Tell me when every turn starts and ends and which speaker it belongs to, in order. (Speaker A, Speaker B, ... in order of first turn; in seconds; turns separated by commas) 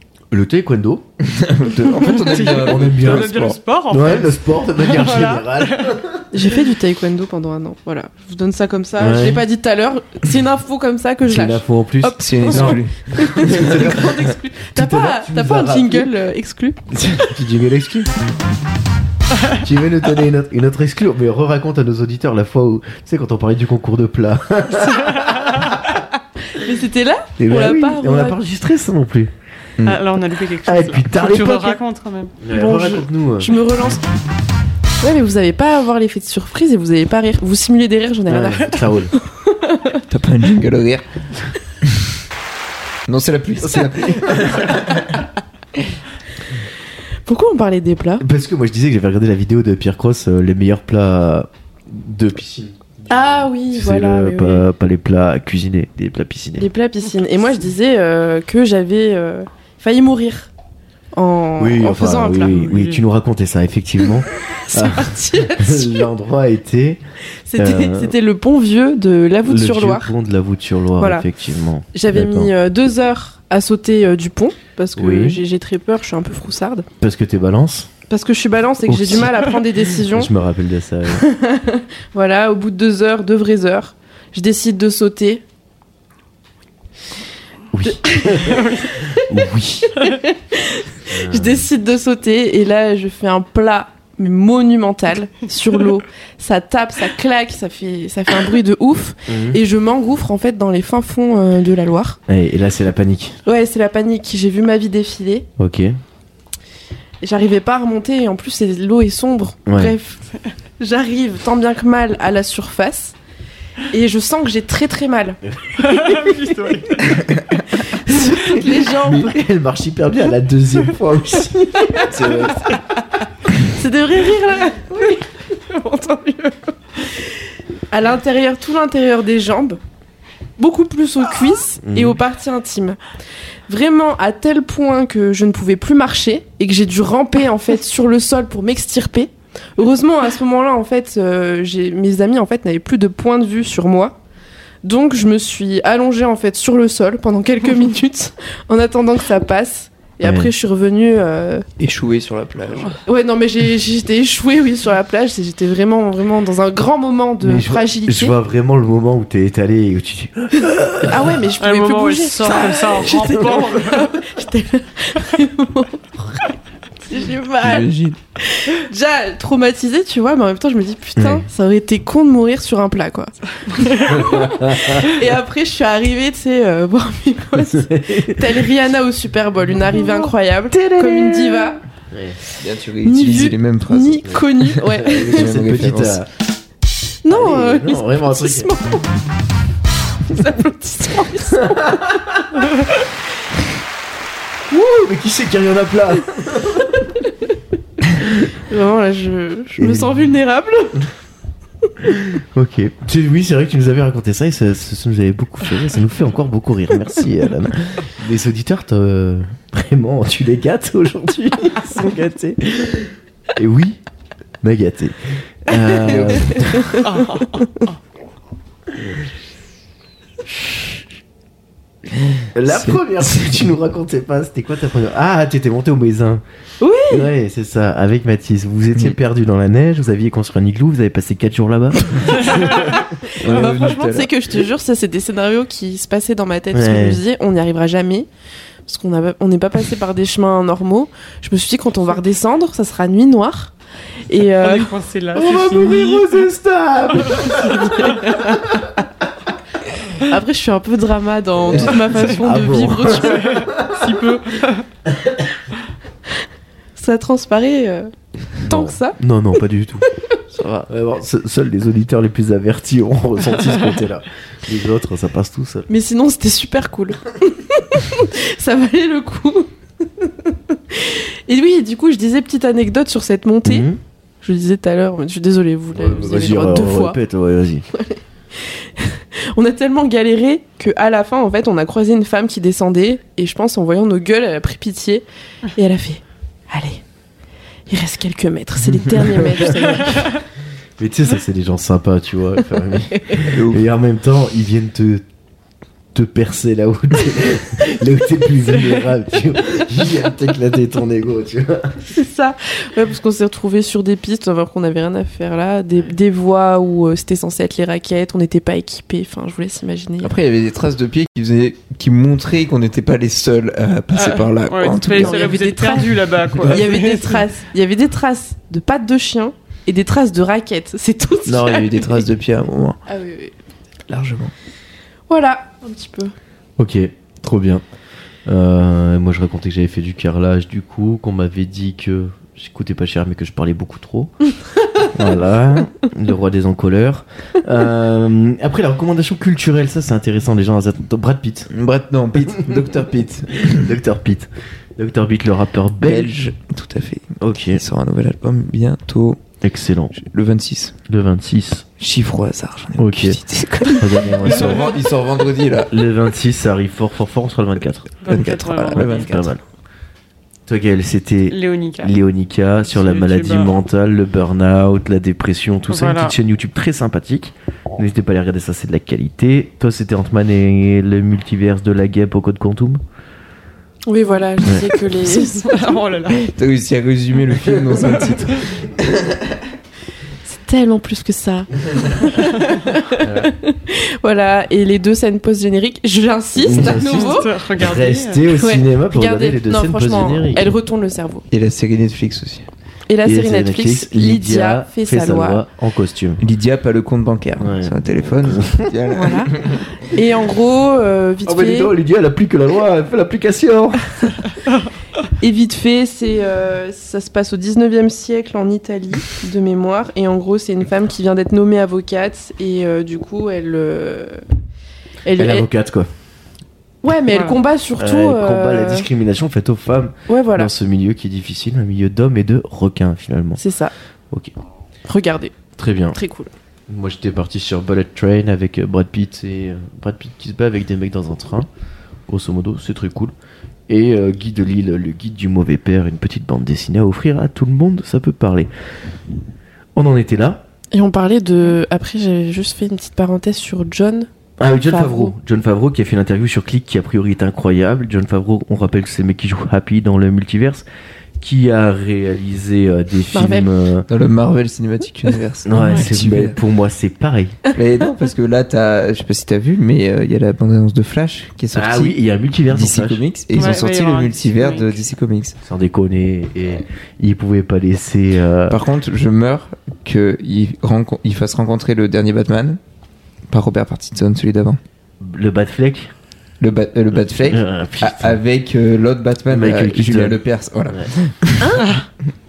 Speaker A: 0.3-1.1, Speaker B: 1.2-3.6, Speaker C: 2.0-6.0, Speaker A: 2.5-6.3, Speaker D: 6.3-16.9, Speaker A: 9.0-9.4, Speaker A: 11.2-16.1, Speaker B: 12.2-13.9, Speaker A: 16.9-18.1, Speaker A: 19.5-26.0, Speaker D: 26.5-28.4, Speaker A: 27.4-29.3, Speaker C: 29.8-32.4, Speaker A: 30.6-31.8, Speaker A: 32.4-33.5, Speaker D: 32.5-34.0, Speaker D: 35.0-40.0, Speaker A: 38.3-39.1, Speaker B: 40.1-41.0, Speaker B: 43.1-45.1, Speaker A: 43.6-44.8, Speaker D: 47.3-48.2, Speaker A: 48.2-56.7, Speaker D: 53.1-54.6, Speaker D: 56.6-60.5, Speaker D: 61.1-62.6, Speaker A: 61.6-67.0, Speaker C: 62.5-63.0, Speaker D: 64.6-66.1, Speaker D: 67.5-70.1, Speaker A: 67.6-68.2, Speaker A: 69.5-72.5, Speaker D: 71.0-71.3, Speaker D: 71.9-76.9, Speaker A: 75.0-75.4, Speaker A: 77.0-77.9, Speaker D: 78.1-80.3, Speaker A: 78.9-81.2, Speaker D: 81.1-85.4, Speaker A: 87.7-90.0, Speaker D: 88.0-88.6, Speaker D: 90.0-102.2, Speaker A: 91.1-91.7, Speaker A: 99.3-99.6, Speaker A: 102.3-103.4, Speaker D: 103.5-105.5, Speaker A: 105.6-106.0, Speaker D: 107.2-110.2, Speaker A: 109.7-109.9, Speaker D: 110.8-113.2, Speaker D: 113.9-117.1, Speaker C: 115.8-117.2, Speaker D: 117.7-119.4, Speaker A: 118.3-122.8, Speaker D: 121.8-122.7, Speaker D: 123.6-127.4, Speaker D: 127.9-129.8, Speaker D: 130.6-133.0, Speaker A: 131.8-132.2, Speaker D: 133.7-144.2, Speaker D: 144.8-151.7, Speaker A: 150.2-150.5, Speaker B: 151.8-153.0, Speaker D: 153.1-158.3, Speaker A: 157.4-161.4, Speaker D: 161.0-166.5, Speaker C: 161.6-164.1, Speaker D: 167.1-181.8, Speaker B: 167.6-168.2, Speaker A: 171.2-171.5, Speaker A: 174.1-175.2, Speaker A: 177.6-178.6, Speaker A: 179.9-182.4, Speaker B: 182.6-186.2, Speaker D: 183.0-185.5, Speaker A: 184.2-186.3, Speaker D: 187.2-189.1, Speaker A: 187.3-188.7, Speaker D: 190.3-192.1, Speaker A: 191.5-192.7, Speaker A: 194.7-197.1, Speaker D: 198.6-201.1, Speaker A: 199.8-200.2, Speaker A: 202.0-214.0, Speaker A: 214.6-217.1, Speaker D: 216.5-217.8, Speaker C: 217.0-217.9, Speaker B: 222.4-223.6, Speaker A: 222.6-226.4, Speaker D: 226.8-227.3, Speaker A: 227.1-233.8, Speaker D: 232.5-238.3, Speaker B: 233.4-234.3, Speaker A: 236.7-237.2, Speaker D: 238.9-243.7, Speaker D: 244.3-244.9, Speaker C: 244.6-246.4, Speaker A: 245.3-248.3, Speaker D: 247.8-248.4, Speaker D: 250.2-253.7, Speaker A: 251.6-254.1, Speaker C: 253.2-254.8, Speaker D: 257.0-259.2, Speaker A: 258.6-265.9, Speaker D: 265.9-273.9, Speaker A: 273.6-274.0, Speaker D: 274.4-277.2, Speaker A: 275.9-277.9, Speaker D: 277.9-287.0, Speaker D: 287.9-290.4, Speaker A: 289.2-290.0, Speaker A: 291.0-295.2, Speaker D: 293.2-293.4, Speaker B: 293.5-293.8, Speaker A: 296.1-302.1, Speaker D: 302.1-310.3, Speaker B: 310.2-315.5, Speaker C: 314.1-317.4, Speaker D: 315.1-322.3, Speaker B: 321.5-323.0, Speaker D: 323.1-323.5, Speaker B: 324.1-324.5, Speaker D: 325.3-326.3, Speaker A: 326.8-327.8, Speaker A: 328.4-334.3, Speaker A: 335.1-341.7, Speaker B: 341.7-343.9, Speaker A: 342.4-346.4, Speaker B: 346.0-349.4, Speaker A: 347.4-347.8, Speaker A: 349.6-350.1, Speaker B: 350.1-350.9, Speaker A: 351.1-351.9, Speaker B: 352.0-355.9, Speaker A: 353.0-354.9, Speaker A: 355.9-358.1, Speaker C: 358.2-359.3, Speaker B: 358.3-359.6, Speaker A: 358.9-359.6, Speaker A: 360.7-373.0, Speaker C: 361.5-362.2, Speaker C: 362.9-363.8, Speaker C: 365.9-366.4, Speaker D: 374.1-375.9, Speaker A: 374.6-375.0, Speaker C: 375.2-376.5, Speaker B: 376.3-379.6, Speaker D: 380.5-387.5, Speaker A: 383.2-383.5, Speaker A: 386.6-390.7, Speaker C: 386.8-388.4, Speaker D: 388.5-391.4, Speaker B: 391.5-392.7, Speaker D: 393.1-395.6, Speaker A: 393.2-396.4, Speaker B: 396.4-399.8, Speaker A: 397.6-398.9, Speaker D: 399.1-401.9, Speaker A: 401.4-404.4, Speaker D: 405.3-414.4, Speaker D: 415.2-415.7, Speaker A: 415.4-416.1, Speaker D: 417.0-419.1, Speaker C: 417.3-417.6, Speaker A: 418.0-423.6, Speaker D: 420.3-420.7, Speaker D: 423.6-423.9, Speaker D: 425.1-425.6, Speaker A: 425.8-426.2, Speaker D: 426.1-426.5, Speaker A: 426.9-431.7, Speaker A: 432.3-433.3, Speaker A: 433.9-438.7, Speaker A: 439.9-440.6, Speaker D: 440.9-444.3, Speaker A: 444.6-450.9, Speaker D: 444.8-445.3, Speaker A: 451.4-454.1, Speaker D: 453.3-453.7, Speaker B: 454.1-456.6, Speaker A: 455.7-457.6, Speaker B: 457.7-462.1, Speaker A: 461.7-463.2, Speaker B: 462.7-465.6, Speaker C: 463.5-465.0, Speaker A: 465.6-468.8, Speaker B: 468.7-472.8, Speaker B: 473.5-474.8, Speaker A: 475.2-476.1, Speaker B: 476.6-481.7, Speaker A: 477.1-478.4, Speaker A: 479.5-481.1, Speaker D: 481.6-482.1